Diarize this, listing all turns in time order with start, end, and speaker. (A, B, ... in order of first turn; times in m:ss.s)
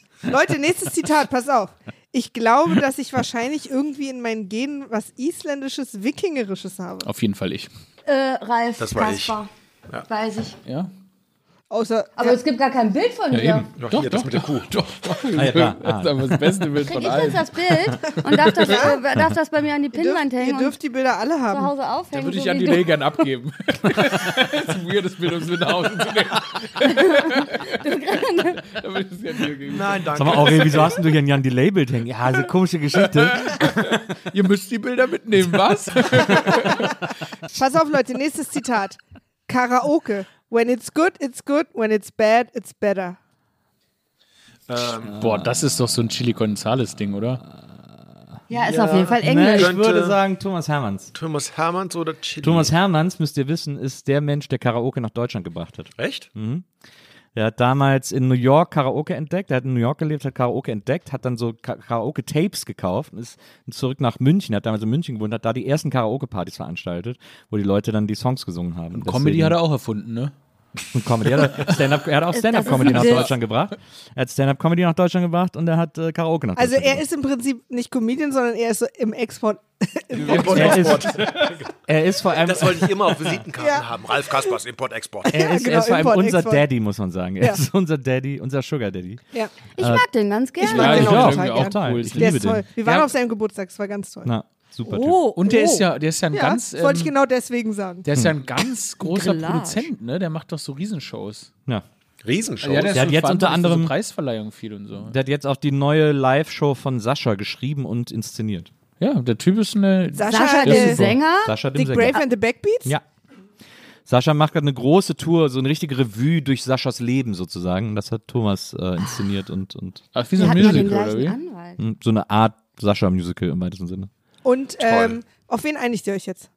0:00.3-0:07.1 A
0:07.0-0:07.7 B
0:08.1-0:09.5 C
0:08.8-0:10.1 D
0:10.1-0:10.6 C
0:10.7-0:10.9 B
0:11.7-0:12.4 A
0:12.2-0:13.7 C
0:13.3-0:17.6 B
0:13.8-0:14.8 D
0:15.3-0:16.5 E
0:16.8-0:20.8 C
0:18.3-0:18.8 B
0:18.6-0:19.0 A
0:19.9-0:21.7 A
0:21.5-0:23.1 C
0:22.1-0:27.4 B
0:26.8-0:28.6 C
0:28.6-0:30.5 B
0:29.6-0:31.1 D
0:30.1-0:34.0 E
0:33.3-0:37.0 B
0:37.5-0:43.2 A
0:44.7-0:45.2 D
0:45.1-0:47.4 B
0:45.2-0:45.6 E
0:48.5-0:49.8 C
0:48.7-0:50.2 D
0:49.1-0:51.1 E
0:51.1-0:52.8 D
0:52.4-0:56.7 E
0:56.0-0:56.3 D
0:57.4-1:09.6 E
1:08.9-1:10.3 B
1:10.9-1:17.0 E
1:12.3-1:13.4 C
1:16.6-1:21.1 A
1:20.2-1:21.2 B
1:20.2-1:21.5 D
1:20.4-1:23.3 E
1:22.3-1:25.4 D
1:23.6-1:24.6 A
1:25.2-1:26.7 A
1:25.3-1:29.2 E
1:29.8-1:31.2 C
1:29.8-1:30.1 E
1:30.6-1:34.3 A
1:30.6-1:32.9 B
1:30.8-1:33.0 E
1:34.2-1:35.3 E
1:34.8-1:35.9 C
1:35.4-1:37.1 B
1:36.3-1:38.1 A
1:38.1-1:41.5 B
1:39.0-1:39.9 C
1:42.2-1:43.1 D
1:42.6-1:45.2 B
1:42.9-1:43.9 E
1:45.0-1:48.7 E
1:49.0-1:51.2 B
1:50.1-1:51.0 A
1:50.2-1:52.2 C
1:51.4-1:52.2 E
1:51.7-1:52.9 A
1:54.1-2:00.9 E
2:00.1-2:01.4 B
2:00.4-2:01.8 C
2:01.8-2:04.1 E
2:04.4-2:06.5 A
2:04.8-2:05.2 D